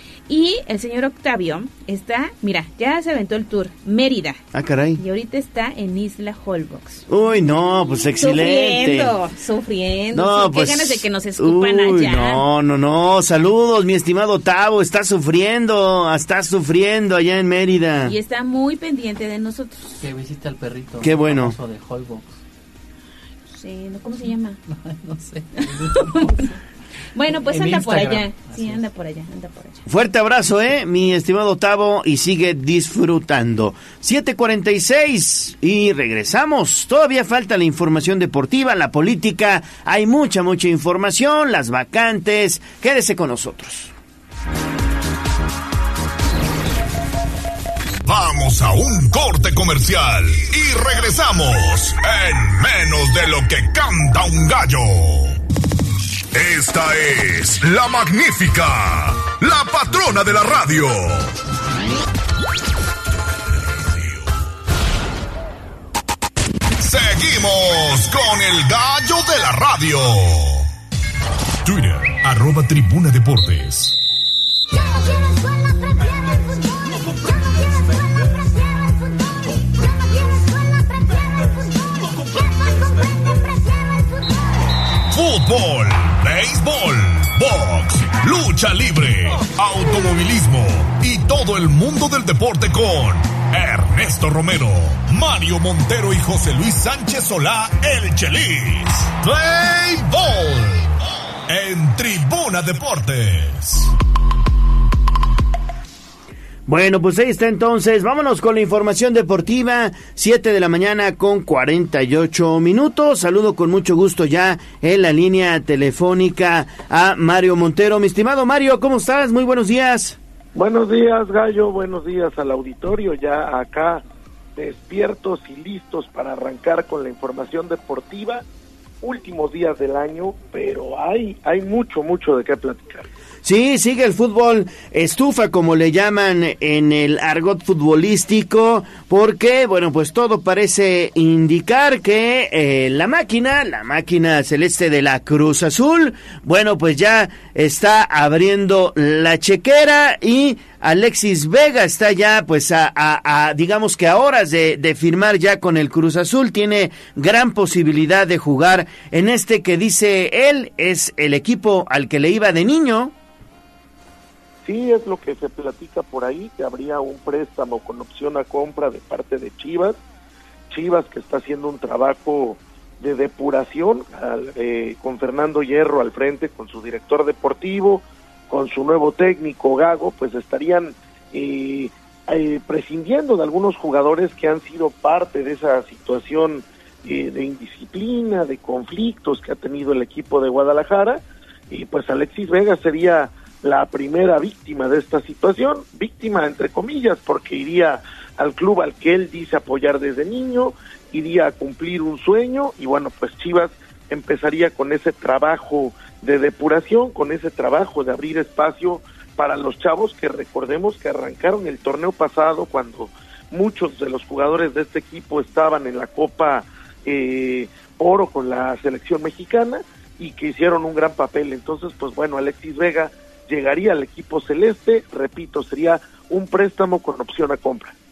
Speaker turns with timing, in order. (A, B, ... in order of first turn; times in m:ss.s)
0:00.3-0:04.4 A
0:04.5-0:05.0 B
0:05.0-0:07.1 A
0:07.1-0:09.1 B
0:08.2-0:12.4 A
0:10.1-0:18.1 B
0:18.0-0:20.1 A
0:20.0-0:22.3 C
0:21.0-0:21.6 B
0:23.5-0:24.6 A
0:24.7-0:26.5 C
0:25.6-0:26.5 A
0:27.1-0:29.8 A
0:27.3-0:28.8 C
0:29.9-0:43.9 B
0:48.0-0:55.4 D
0:56.3-1:01.3 D
1:03.9-1:04.1 D
1:06.8-1:10.7 D
1:11.6-1:14.0 D
1:25.1-1:43.9 D
1:46.6-2:00.2 B
2:00.6-2:04.0 E
2:04.6-2:08.4 E
2:09.0-2:13.1 E
2:13.4-2:43.1 B
2:44.6-2:50.0 E
2:50.7-3:47.9 E